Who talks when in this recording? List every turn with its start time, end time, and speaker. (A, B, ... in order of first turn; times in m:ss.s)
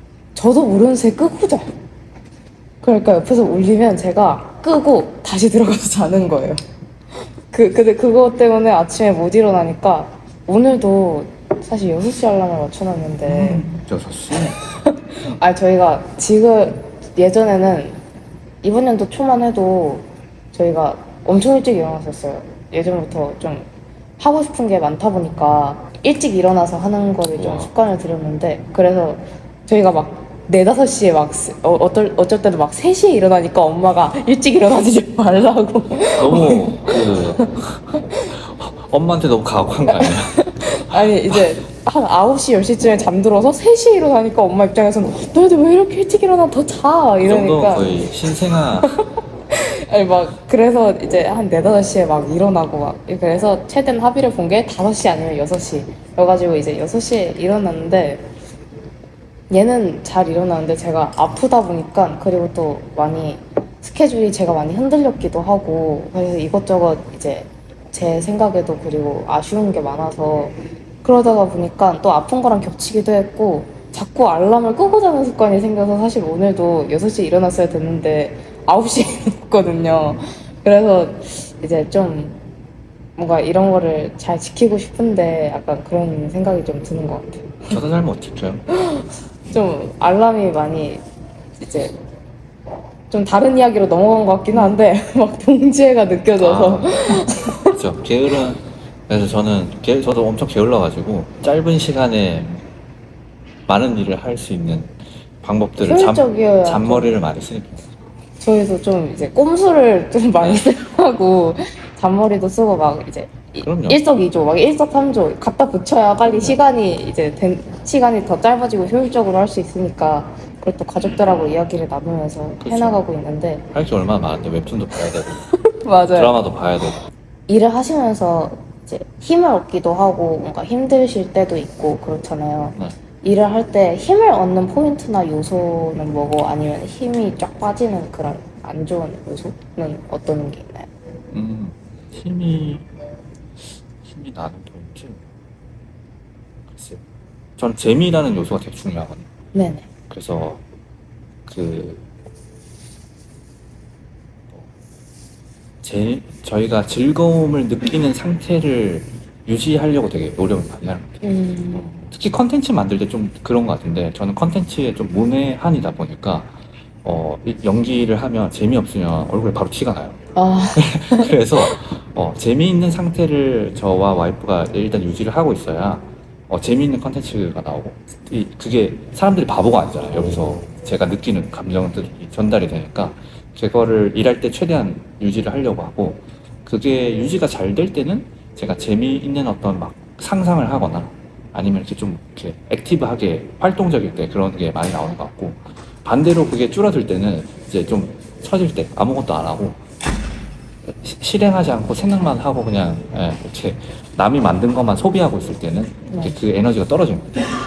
0:00.3-0:01.7 A
0:02.8-0:06.6 A
0:07.5-0:13.7 A
0:13.2-0:14.6 B
0:14.6-0:18.0 A
0:18.6-0:23.7 A
0:24.2-0:37.5 A
0:27.3-0:27.7 B
0:36.2-0:41.5 B
0:39.9-0:58.3 A
0:47.2-0:49.0 B
0:59.5-1:22.4 A
1:23.2-1:27.8 A
1:27.7-1:28.6 B
1:28.7-1:31.0 A
1:31.6-1:32.0 A
1:33.1-1:37.8 A
1:34.5-1:34.8 B
1:36.4-1:42.6 B
1:43.7-1:47.9 B
1:45.8-1:47.1 A
1:48.4-2:03.6 A
1:50.4-1:50.6 B
1:53.6-1:54.0 B
1:56.2-1:56.6 B
2:02.6-2:03.0 B
2:03.7-2:05.5 B
2:05.5-2:06.4 A
2:06.1-2:07.0 B
2:07.5-2:20.9 A
2:21.3-2:22.9 B
2:23.6-2:25.2 B
2:26.7-2:27.0 B
2:27.6-2:29.3 B
2:29.5-2:29.9 A
2:30.1-2:30.6 B
2:31.4-2:32.0 B
2:35.8-2:41.2 B
2:41.2-2:42.1 A
2:41.7-2:50.2 B
2:50.4-2:51.7 A
2:50.7-3:19.8 B
3:20.9-3:27.4 B
3:26.1-3:26.4 A